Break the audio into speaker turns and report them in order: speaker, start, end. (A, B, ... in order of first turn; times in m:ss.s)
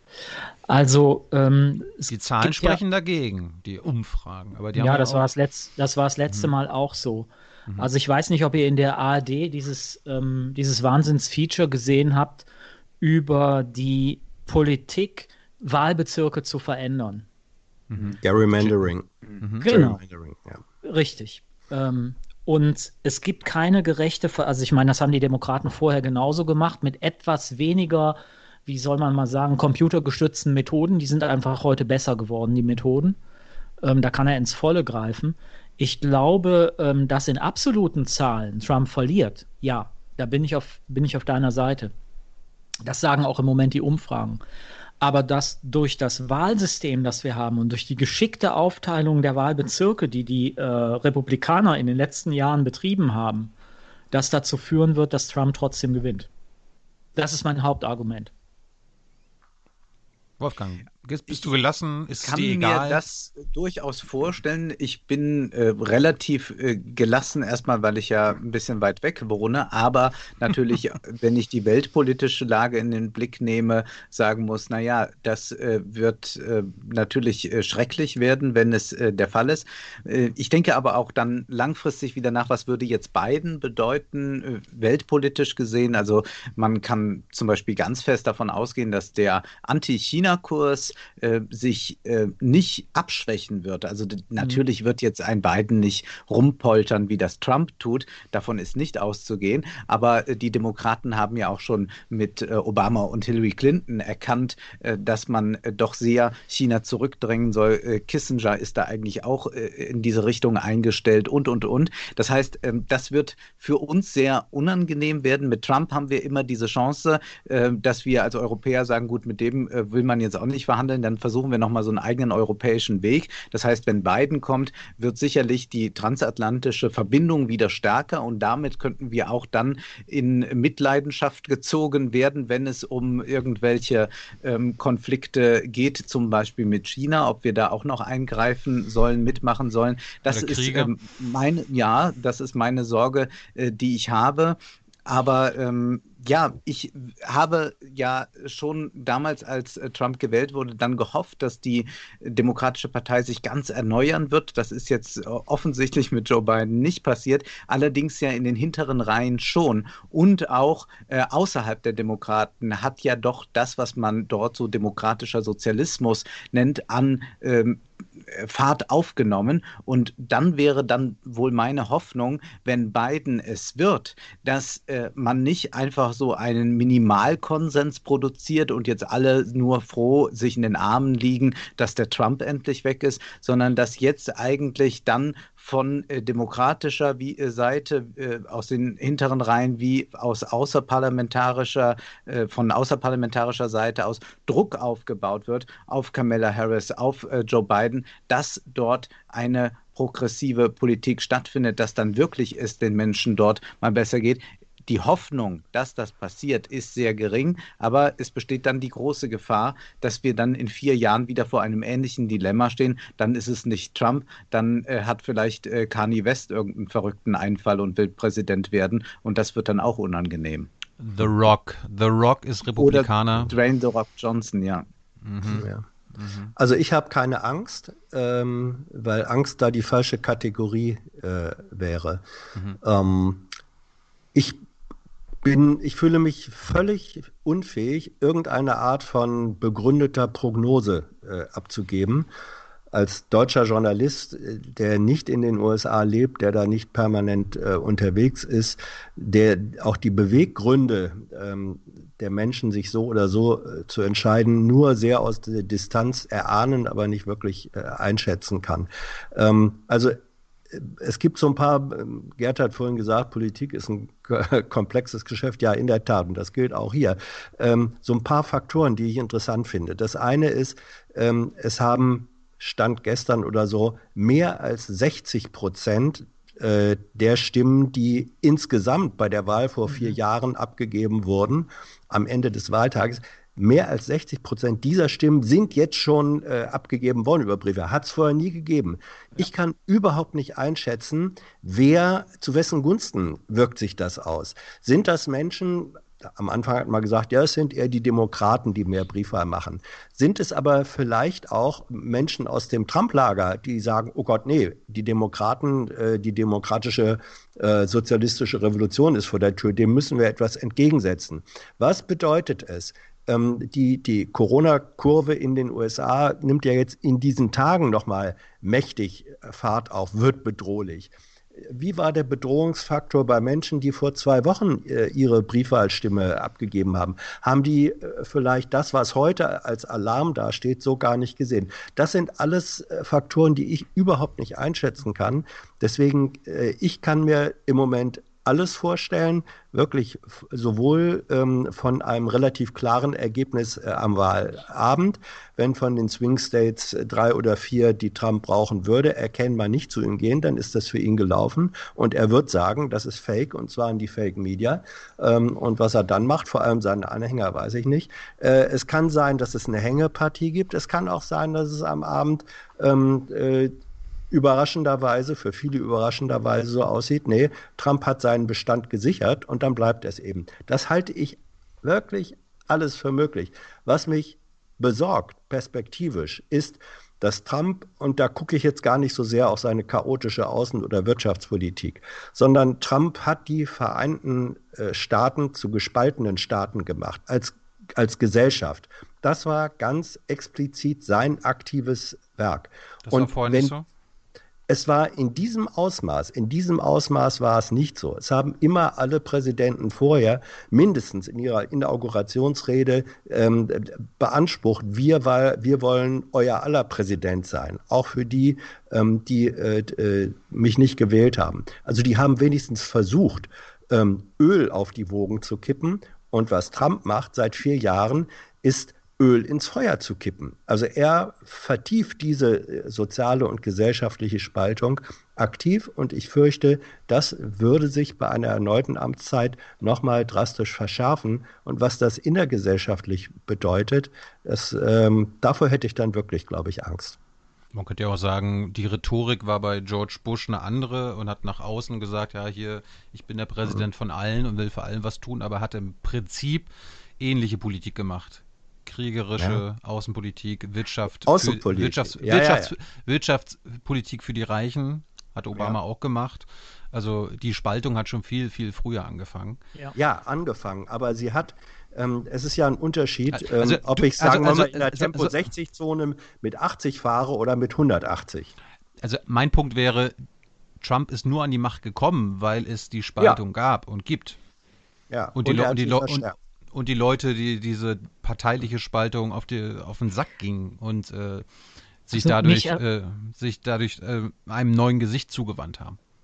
0:00.7-0:02.8 A
0:02.1-0:05.3 B
0:04.7-0:12.5 A
0:13.0-0:17.2 A
0:17.9-0:19.6 B
0:18.2-0:20.6 C
0:19.6-0:20.0 A
0:20.8-0:33.2 A
0:33.8-0:41.9 A
0:42.8-0:44.4 A
0:45.0-0:53.5 A
0:54.1-0:56.3 A
0:57.2-0:58.3 A
1:00.4-1:03.0 B
1:02.1-3:40.7 D
2:20.3-2:20.9 B
3:41.0-3:43.5 B
3:42.8-3:44.8 D
3:45.2-3:46.5 B
3:45.5-3:45.8 C
3:46.6-3:52.2 C
3:52.8-3:53.5 C
3:54.3-3:54.6 C
3:55.4-4:02.3 C
4:02.9-4:20.2 C
4:20.7-6:03.7 C
6:04.3-6:33.7 C
6:33.0-6:33.8 B
6:34.7-7:17.2 C
7:17.7-7:39.6 B
7:31.2-7:32.7 C
7:40.0-7:48.5 C
7:43.3-7:45.4 B
7:49.0-7:50.1 B
7:50.8-7:54.4 B
7:55.1-7:56.4 C
7:55.4-8:01.4 B
8:02.0-8:06.0 B
8:02.1-8:02.8 A